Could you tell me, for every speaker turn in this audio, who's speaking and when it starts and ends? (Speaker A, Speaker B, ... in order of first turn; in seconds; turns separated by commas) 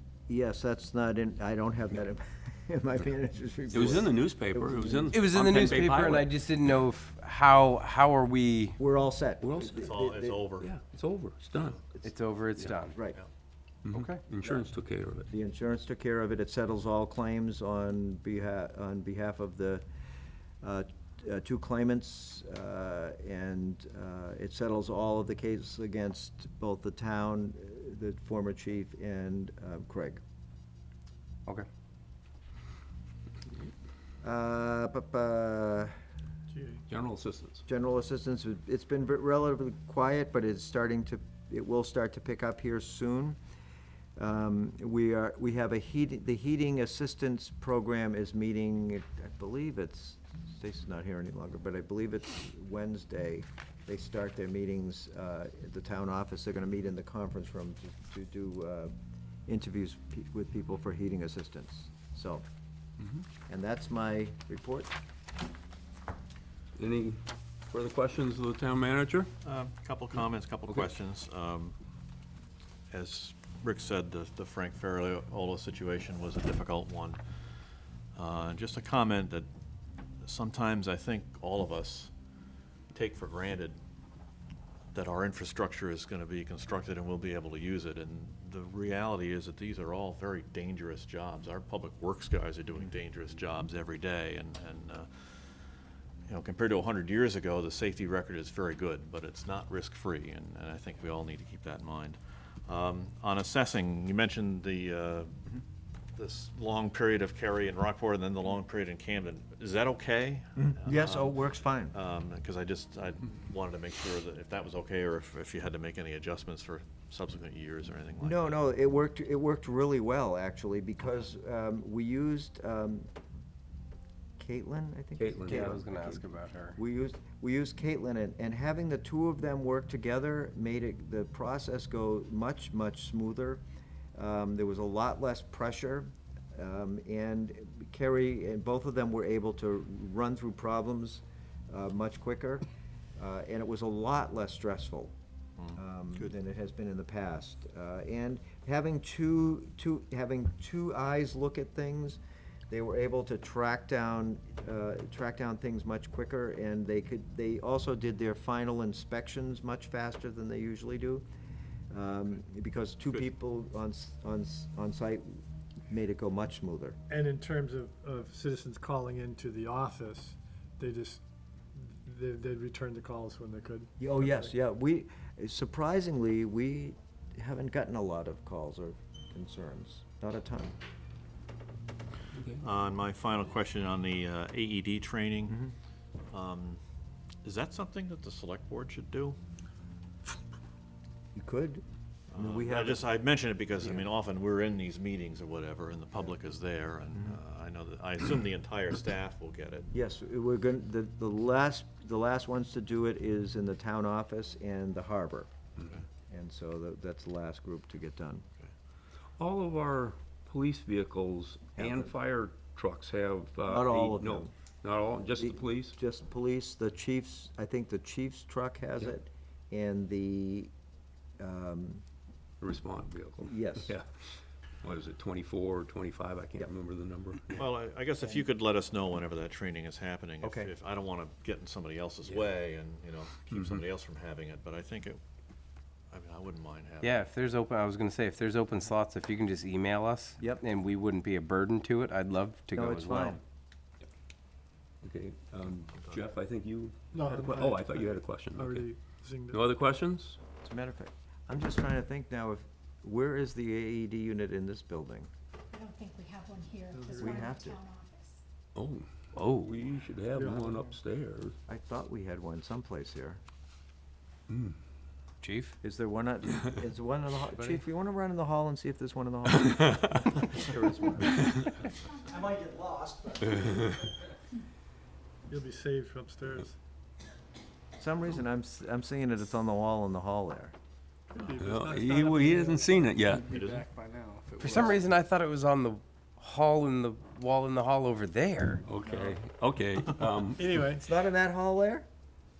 Speaker A: 0.3-5.2, Speaker B: 3.7-6.3, Speaker C: 5.1-8.8, Speaker D: 5.4-6.1, Speaker A: 8.8-10.4, Speaker B: 9.4-9.9, Speaker D: 9.8-10.7, Speaker B: 10.6-11.8, Speaker C: 12.0-12.9, Speaker A: 12.9-13.2, Speaker B: 13.8-15.3, Speaker A: 15.3-19.8, Speaker A: 20.6-30.2, Speaker A: 34.2-35.9, Speaker E: 36.5-36.8, Speaker B: 36.9-37.6, Speaker A: 37.7-43.4, Speaker A: 44.2-58.9, Speaker A: 59.5-62.5, Speaker A: 63.5-64.9, Speaker B: 66.8-69.3, Speaker D: 69.4-71.8, Speaker D: 72.9-77.2, Speaker D: 78.1-79.5, Speaker D: 80.2-82.1, Speaker D: 82.9-83.8, Speaker D: 84.9-95.2, Speaker D: 96.3-105.5, Speaker D: 106.2-118.6, Speaker A: 110.6-111.9, Speaker A: 118.2-123.1, Speaker A: 124.4-133.6, Speaker B: 125.2-125.8, Speaker C: 125.4-126.8, Speaker A: 134.1-142.6, Speaker A: 143.2-145.1, Speaker D: 145.6-146.3, Speaker A: 145.7-161.2, Speaker A: 161.9-167.0, Speaker E: 167.1-171.2, Speaker E: 171.7-174.4, Speaker A: 174.0-180.7, Speaker B: 182.3-182.6, Speaker D: 182.6-185.6, Speaker D: 186.3-186.8, Speaker D: 187.4-189.3, Speaker A: 191.3-191.8, Speaker D: 192.3-199.9, Speaker A: 192.3-193.1, Speaker A: 199.9-205.5, Speaker D: 205.8-206.0, Speaker A: 206.3-208.4, Speaker B: 209.4-215.9, Speaker A: 211.8-212.1, Speaker A: 213.7-214.5, Speaker A: 215.4-220.7, Speaker A: 221.4-222.0, Speaker B: 222.6-227.6, Speaker A: 223.4-223.9, Speaker D: 227.6-235.2, Speaker A: 230.4-230.7, Speaker B: 233.5-233.8, Speaker D: 236.1-237.2, Speaker C: 237.0-243.4, Speaker A: 242.7-243.4, Speaker B: 245.0-248.9, Speaker D: 245.9-246.2, Speaker E: 247.1-249.6, Speaker B: 249.5-250.4, Speaker A: 250.6-255.3, Speaker F: 255.7-258.4, Speaker E: 256.9-257.3, Speaker A: 257.1-257.8, Speaker B: 258.7-261.5, Speaker C: 259.4-259.7, Speaker E: 260.3-260.7, Speaker A: 260.4-260.7, Speaker A: 261.7-263.4, Speaker B: 264.5-264.7, Speaker C: 265.4-265.8, Speaker A: 265.8-271.6, Speaker C: 267.6-267.8, Speaker G: 272.3-273.4, Speaker B: 273.6-274.0, Speaker E: 275.5-276.8, Speaker A: 278.0-280.7, Speaker E: 281.3-282.8, Speaker B: 281.6-283.6, Speaker G: 282.9-284.9, Speaker D: 283.5-283.9, Speaker C: 284.6-288.8, Speaker B: 288.8-290.7, Speaker E: 289.1-289.3, Speaker E: 290.5-291.1, Speaker A: 290.9-292.1